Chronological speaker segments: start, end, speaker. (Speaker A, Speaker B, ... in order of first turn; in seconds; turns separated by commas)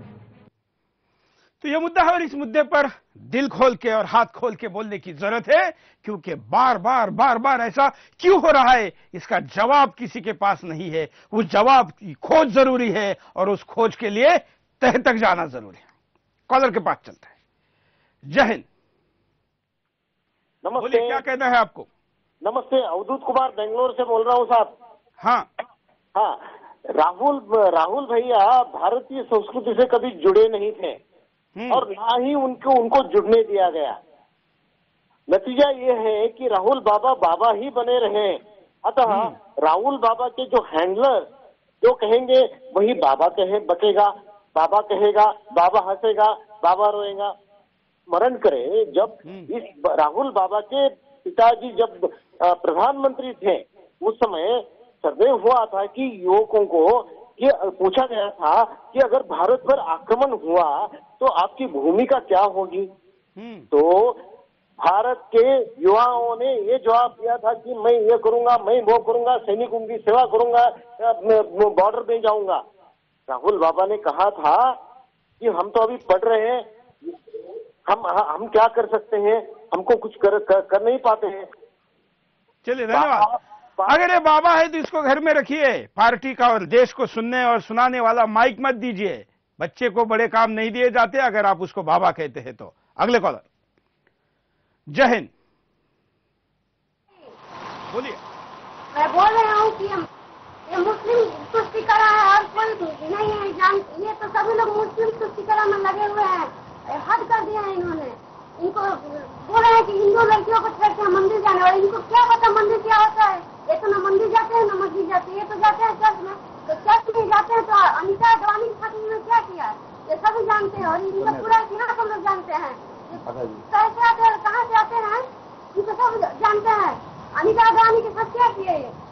Speaker A: 1.6-15.9, Speaker A: 16.5-17.4, Speaker A: 18.3-18.6, Speaker B: 20.6-21.2, Speaker A: 20.8-21.9, Speaker B: 22.4-24.8, Speaker A: 25.2-25.5, Speaker B: 26.2-26.4, Speaker B: 27.0-31.0, Speaker A: 31.6-31.9, Speaker B: 31.7-34.0, Speaker B: 35.3-41.3, Speaker A: 39.1-39.4, Speaker B: 41.8-47.3, Speaker B: 48.1-62.9, Speaker A: 63.4-63.7, Speaker B: 63.7-64.2, Speaker B: 64.8-72.6, Speaker B: 73.3-74.8, Speaker B: 75.4-76.7, Speaker B: 77.9-81.5, Speaker A: 82.7-83.3, Speaker B: 82.9-83.3, Speaker A: 83.9-93.5, Speaker A: 94.9-95.3, Speaker A: 97.9-98.2, Speaker C: 98.9-100.1, Speaker C: 100.7-128.9